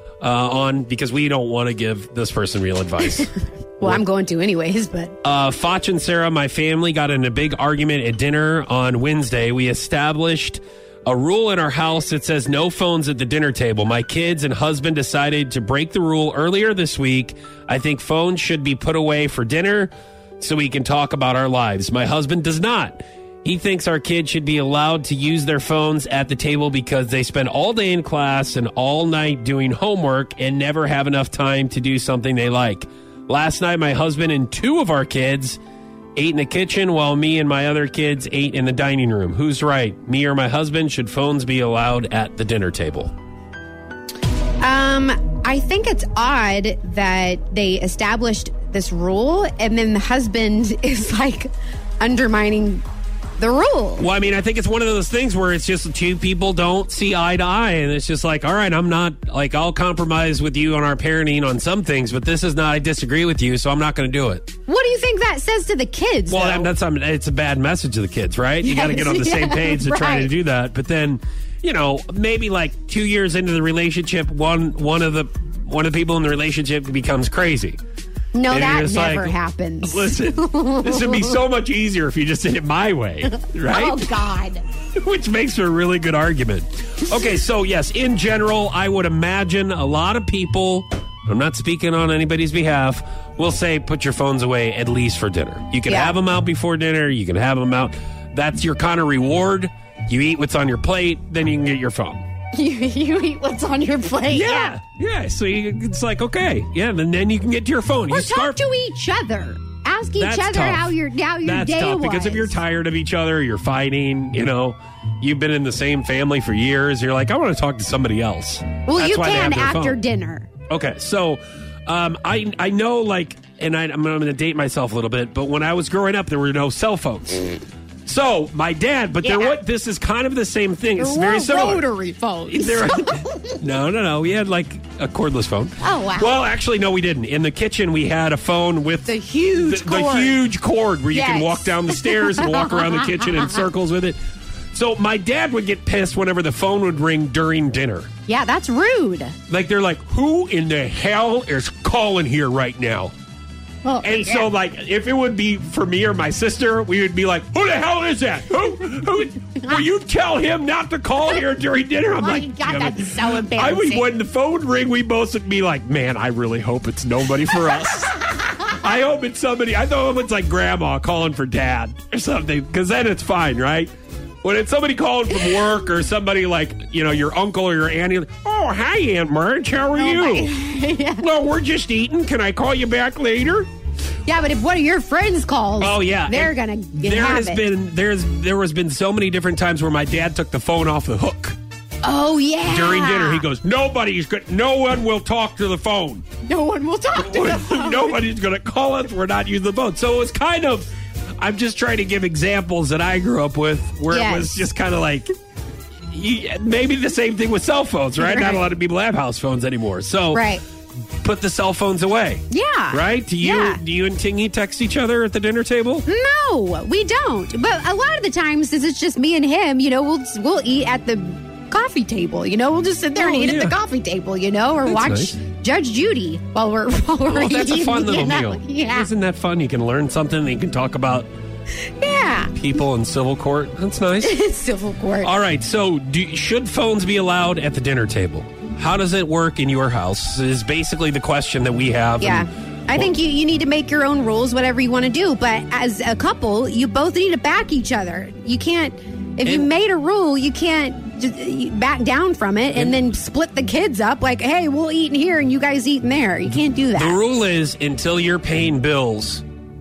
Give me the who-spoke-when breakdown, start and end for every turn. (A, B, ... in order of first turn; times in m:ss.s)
0:00.2-0:04.0 A
0:03.8-0:05.1 B
0:05.2-0:35.6 A
0:36.2-0:43.1 A
0:44.6-0:52.8 B
0:53.4-0:54.0 B
0:54.0-1:04.5 A
1:04.7-1:06.7 B
1:06.3-1:17.8 A
1:08.6-1:10.3 B
1:18.3-1:21.4 B
1:18.5-1:24.1 A
1:23.7-1:24.6 B
1:24.9-1:42.2 A
1:35.9-1:36.2 B
1:42.5-1:44.7 B
1:44.3-1:48.6 A
1:48.1-1:52.6 B
1:50.2-2:00.0 A
1:58.8-2:00.5 B
2:00.7-2:11.8 A
2:09.2-2:09.6 B
2:11.0-2:13.6 B
2:12.5-2:24.2 A
2:15.8-2:16.4 B
2:19.0-2:20.4 B
2:21.1-2:23.5 B
2:24.7-2:28.1 A
2:28.3-2:29.3 B
2:29.5-2:33.1 A
2:33.8-2:34.5 B
2:34.0-2:53.9 A
2:42.1-2:44.1 B
2:54.4-3:00.5 A
3:00.0-3:01.3 B
3:01.2-3:03.7 A
3:04.2-3:07.6 B
3:05.8-3:11.6 A
3:12.0-3:13.4 B
3:12.7-3:16.3 A
3:16.4-3:18.2 B
3:17.1-3:20.9 A
3:21.4-3:25.3 A
3:24.1-3:24.6 B
3:26.1-3:30.5 A
3:28.2-3:28.6 B
3:30.3-3:30.6 B
3:31.2-3:36.1 A
3:32.5-3:33.8 B
3:36.1-3:49.1 B
3:43.2-3:43.8 A
3:44.8-3:45.3 A
3:47.2-3:51.3 A
3:51.8-3:52.5 B
3:52.5-3:54.3 A
3:54.2-3:55.3 B
3:55.2-4:03.1 A
4:02.2-4:17.2 B
4:17.0-4:19.4 A